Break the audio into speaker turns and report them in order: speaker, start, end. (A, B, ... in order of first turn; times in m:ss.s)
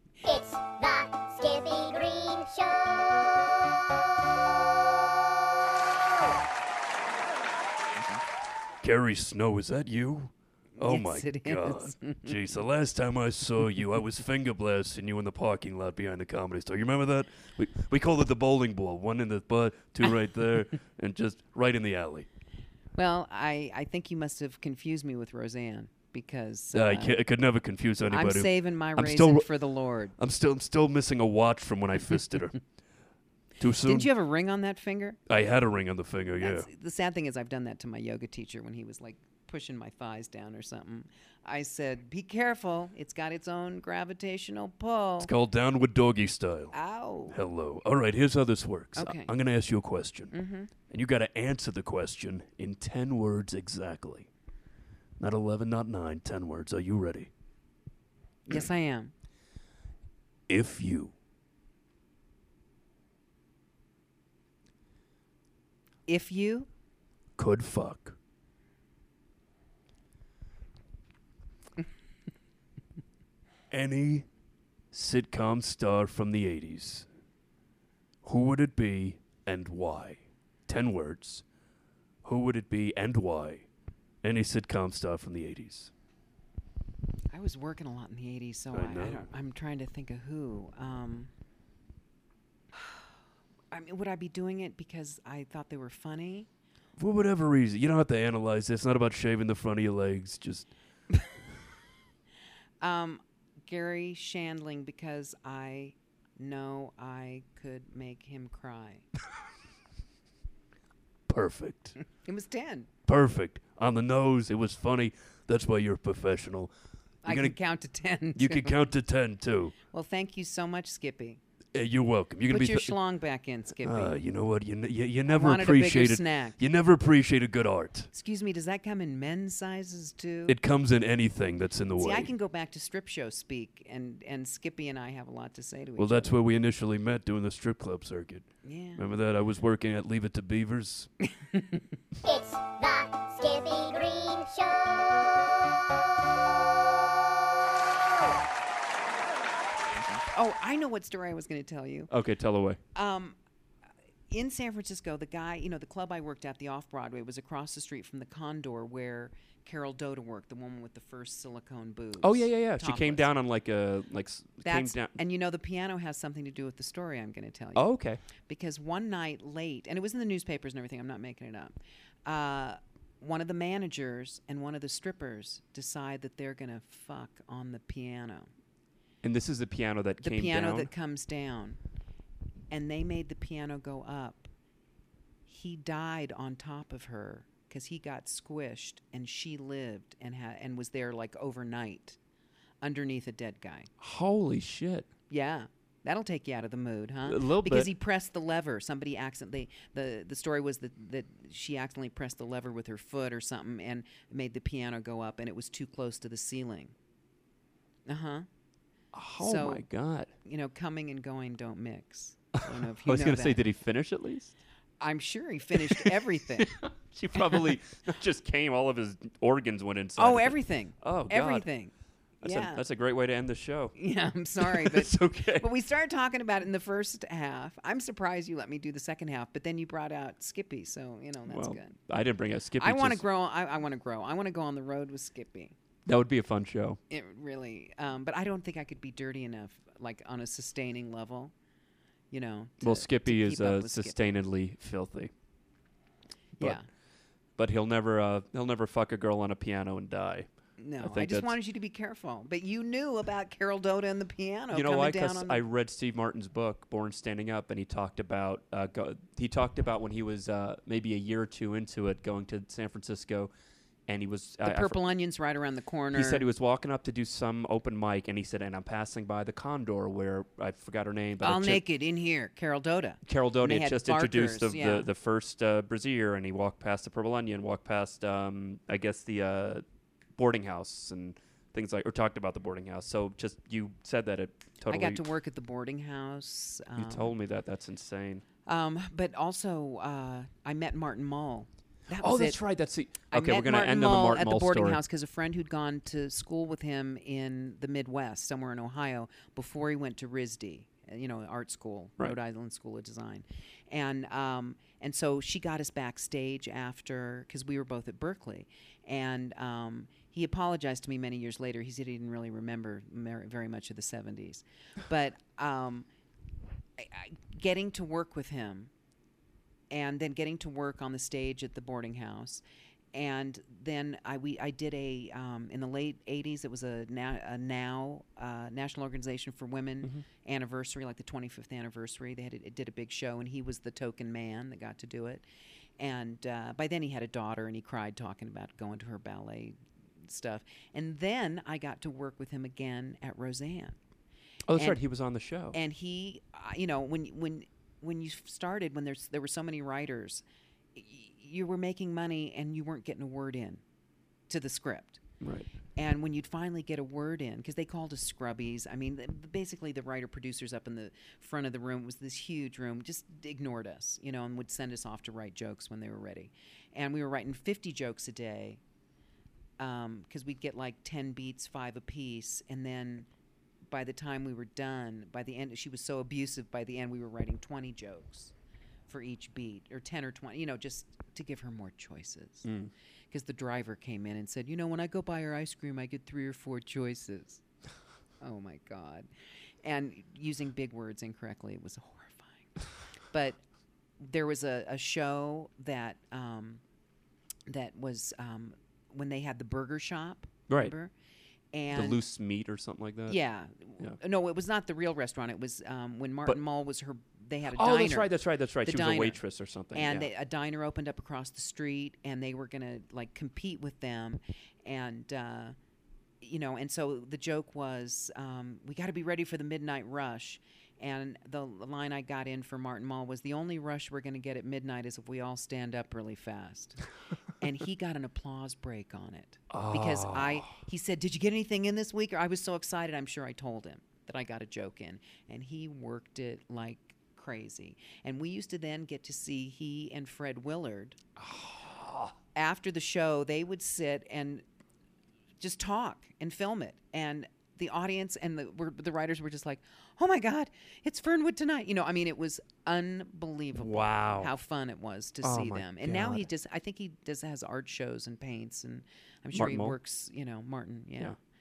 0:00.2-0:03.1 A
0:08.8-0:22.3 B
0:10.8-0:12.6 C
0:23.0-0:27.2 C
0:26.7-0:29.5 B
0:28.1-0:30.2 C
0:30.2-0:32.6 B
0:33.6-0:34.1 B
0:33.8-0:35.2 C
0:35.3-0:36.7 B
0:36.4-0:45.3 C
0:45.2-0:46.7 B
0:46.7-0:47.4 C
0:47.3-0:50.3 B
0:49.0-0:49.3 C
0:50.3-0:50.7 C
0:50.9-0:54.3 B
0:55.2-0:57.3 B
0:58.4-0:59.1 C
1:00.5-1:01.1 B
1:06.1-1:06.7 C
1:07.4-1:08.2 B
1:13.7-1:14.3 B
1:14.9-1:17.0 B
1:18.2-1:21.4 B
1:22.2-1:23.6 B
1:24.2-1:25.9 B
1:27.3-1:31.3 C
1:28.7-1:29.3 B
1:32.7-1:33.1 C
1:33.7-1:36.5 C
1:37.0-1:40.7 B
1:42.8-1:49.0 C
1:51.3-1:52.0 B
1:52.2-1:52.9 C
1:53.0-1:56.7 B
1:57.2-1:57.6 B
1:57.2-1:58.7 C
1:58.4-1:59.7 B
1:59.9-2:01.4 C
2:01.7-2:02.9 B
2:02.5-2:04.2 C
2:03.8-2:08.1 B
2:05.3-2:06.6 C
2:08.1-2:10.6 C
2:10.5-2:12.3 B
2:12.0-2:16.4 C
2:16.0-2:21.1 B
2:18.6-2:19.0 C
2:21.5-2:21.8 C
2:22.2-2:25.0 A
2:30.2-2:32.1 C
2:32.1-2:32.8 D
2:32.9-2:33.4 C
2:34.3-2:43.4 C
2:42.2-2:45.2 D
2:44.6-2:47.9 C
2:47.7-2:48.2 D
2:48.4-2:58.5 C
2:59.2-3:00.9 D
3:00.2-3:01.8 C
3:02.7-3:04.5 C
3:05.5-3:12.2 C
3:12.8-3:13.9 C
3:14.0-3:15.1 D
3:15.3-3:26.9 C
3:17.2-3:17.9 D
3:28.0-3:28.5 C
3:29.1-3:30.3 D
3:29.4-3:29.8 C
3:30.4-3:33.6 C
3:32.6-3:34.6 D
3:35.0-3:36.8 C
3:35.8-3:41.7 D
3:37.4-3:37.7 C
3:40.2-3:42.8 C
3:42.4-3:44.0 D
3:44.0-3:52.0 C
3:44.6-3:45.7 D
3:51.4-3:53.2 D
3:52.8-3:55.8 C
3:56.0-3:57.0 D
3:57.1-4:01.5 C
4:02.3-4:04.2 C
4:02.8-4:05.3 D
4:06.6-4:06.9 C
4:07.6-4:10.5 D
4:10.8-4:15.6 C
4:11.0-4:11.5 D
4:14.7-4:23.5 D
4:24.1-4:25.0 D
4:24.6-4:26.5 C
4:26.1-4:31.8 D
4:31.4-4:35.1 C
4:33.2-4:39.8 D
4:40.4-4:45.2 D
4:44.9-4:47.3 C
4:47.0-4:48.4 D
4:48.6-4:52.6 C
4:52.2-4:55.0 D
4:53.3-5:16.1 C
5:17.0-5:18.9 C
5:19.9-5:22.6 C
5:23.1-5:35.4 C
5:36.0-5:44.0 C
5:44.7-5:45.8 D
5:44.7-5:45.0 C
5:45.7-5:50.4 C
5:50.9-5:53.8 C
5:54.5-5:55.2 C
5:55.4-5:55.7 D
5:56.0-6:08.8 C
6:09.8-6:13.3 C
6:13.9-6:18.5 C
6:19.1-6:22.7 C
6:22.6-6:22.9 D
6:23.3-6:27.6 C
6:28.4-6:29.3 C
6:29.8-6:33.6 C
6:34.2-6:36.8 C
6:37.7-6:41.1 C
6:40.7-6:40.9 D
6:41.7-6:42.2 C
6:41.9-6:43.4 D
6:43.3-6:49.4 C
6:47.7-6:50.3 D
6:49.9-6:55.8 C
6:56.4-7:07.0 C
7:07.6-7:21.2 C
7:09.7-7:10.5 D
7:21.4-7:22.3 D
7:22.5-7:24.6 C
7:25.6-7:41.4 C
7:33.7-7:34.5 D
7:35.4-7:36.5 D
7:39.5-7:40.0 D